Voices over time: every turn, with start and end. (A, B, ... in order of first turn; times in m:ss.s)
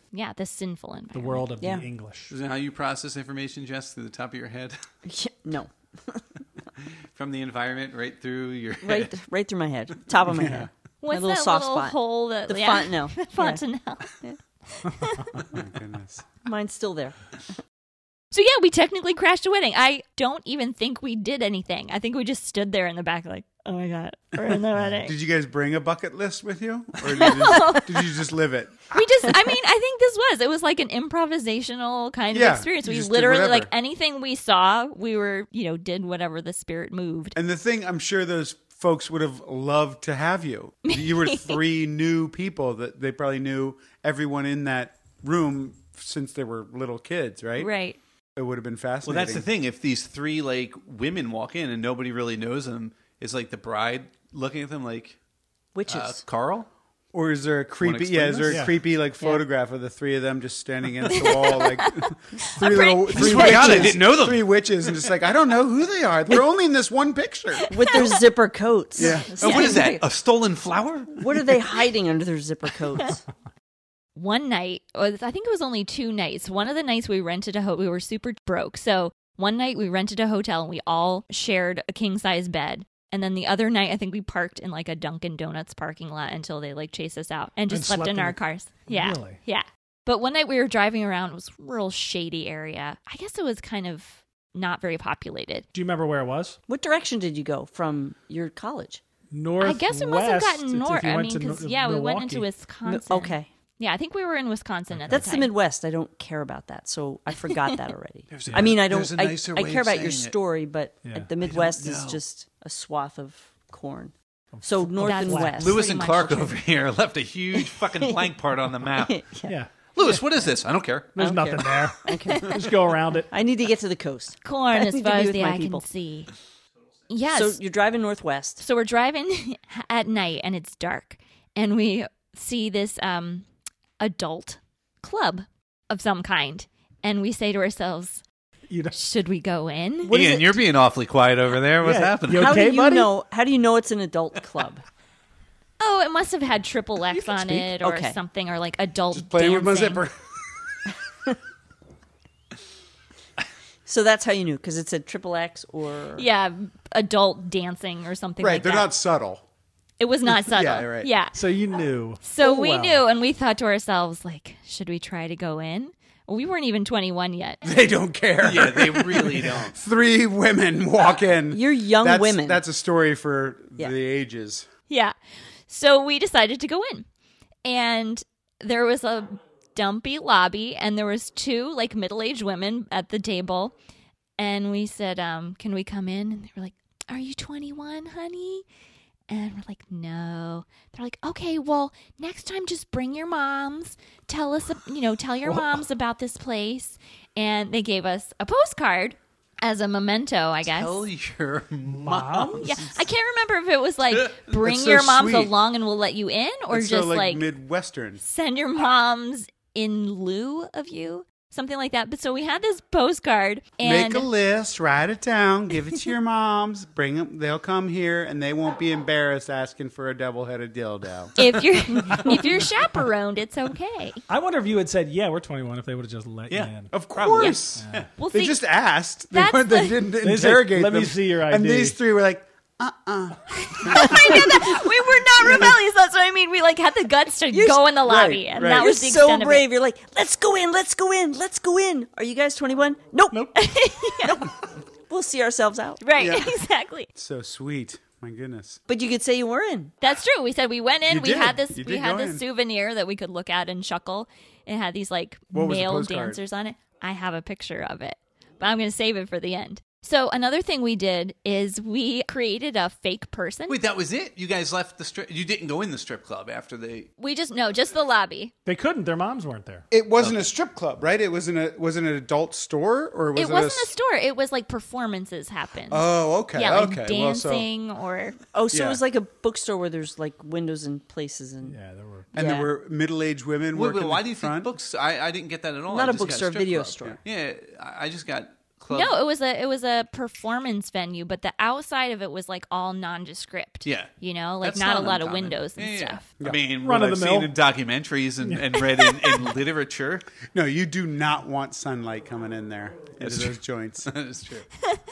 0:00.1-0:01.5 A
0:01.1-0:02.3 B
0:01.6-0:01.8 C
0:02.3-0:04.8 D
0:05.0-0:06.2 C
0:07.1-0:09.1 D
0:08.8-0:13.6 C
0:10.3-0:10.7 E
0:11.0-0:15.4 A
0:15.5-0:16.2 E
0:16.4-0:17.3 C
0:18.3-0:25.1 A
0:25.0-0:28.9 E
0:27.1-0:28.0 A
0:28.9-0:37.4 A
0:32.3-0:33.7 E
0:37.4-0:47.7 E
0:40.9-0:41.6 A
0:47.6-0:48.0 A
0:48.4-0:49.5 E
0:49.0-0:55.2 D
0:55.7-0:56.2 C
0:55.8-0:56.7 D
0:57.1-1:07.7 E
0:57.8-0:58.7 D
0:58.5-0:58.8 B
1:01.1-1:03.7 A
1:03.1-1:04.5 D
1:03.5-1:03.9 C
1:07.6-1:08.2 A
1:07.7-1:10.0 C
1:09.0-1:09.4 E
1:09.0-1:09.8 A
1:09.4-1:11.6 D
1:11.2-1:13.2 C
1:14.1-1:35.6 A
1:27.7-1:29.4 B
1:35.7-1:36.6 B
1:36.7-1:39.0 C
1:39.3-1:42.5 B
1:39.6-1:45.5 A
1:42.8-1:43.5 C
1:44.9-1:45.3 B
1:45.1-1:55.8 C
1:48.3-1:50.4 D
1:48.4-1:48.7 B
1:51.0-1:51.3 B
1:51.4-1:52.2 D
1:54.5-1:55.6 B
1:55.0-1:56.6 A
1:55.6-1:59.2 D
1:57.6-1:58.3 C
1:58.8-1:59.6 C
1:59.4-2:00.2 B
1:59.9-2:01.2 D
2:01.1-2:03.3 B
2:01.2-2:02.7 C
2:02.3-2:02.6 A
2:03.3-2:05.8 C
2:04.4-2:06.3 A
2:07.1-2:07.6 A
2:07.3-2:08.6 C
2:08.6-2:13.4 A
2:14.0-2:18.2 A
2:18.7-2:19.0 B
2:18.9-2:20.2 A
2:20.0-2:20.6 C
2:20.1-2:22.6 D
2:21.8-2:23.1 B
2:22.3-2:24.8 C
2:25.8-2:30.0 A
2:27.6-2:28.2 C
2:29.1-2:30.8 E
2:33.8-2:36.2 C
2:36.2-2:38.9 A
2:38.4-2:39.4 E
2:40.0-2:41.4 A
2:40.3-2:41.1 E
2:41.3-2:43.0 B
2:42.2-2:47.6 A
2:47.6-2:54.7 E
2:48.4-2:49.8 D
2:51.5-2:52.6 C
2:54.9-2:55.1 A
2:55.7-2:57.0 A
2:57.6-3:03.7 A
3:04.4-3:08.6 A
3:09.3-3:21.0 A
3:20.6-3:23.0 D
3:21.9-3:22.8 B
3:22.6-3:27.4 A
3:24.1-3:24.4 D
3:24.5-3:25.5 E
3:26.7-3:28.2 E
3:28.2-3:34.3 A
3:33.8-3:41.3 E
3:41.4-3:44.2 A
3:44.3-3:46.9 B
3:46.5-3:48.1 D
3:46.9-3:54.8 E
3:47.8-3:48.0 B
3:48.2-3:48.6 A
3:49.3-3:50.0 A
3:50.2-3:52.0 B
3:53.6-3:59.6 A
3:55.4-3:55.7 E
3:57.5-4:03.5 C
3:58.5-3:58.9 E
4:03.3-4:03.6 B
4:03.6-4:04.5 A
4:04.2-4:06.0 C
4:06.0-4:07.1 A
4:06.2-4:06.5 E
4:07.1-4:08.8 E
4:08.9-4:09.9 C
4:10.0-4:23.8 A
4:11.1-4:12.4 E
4:15.5-4:16.4 E
4:23.7-4:27.1 D
4:27.2-4:28.5 A
4:28.6-4:29.9 B
4:29.9-4:33.9 E
4:30.2-4:30.5 D
4:33.3-4:38.4 A
4:35.9-4:37.7 E
4:38.5-4:41.8 C
4:38.7-4:39.0 E
4:41.6-4:42.3 B
4:42.3-4:44.7 E
4:42.3-4:42.7 C
4:43.7-4:49.1 D
4:45.9-4:47.2 C
4:48.9-4:56.3 A
4:53.8-5:00.3 D
4:56.8-4:57.5 B
4:59.1-4:59.4 A
5:00.5-5:04.1 E
5:03.2-5:04.7 D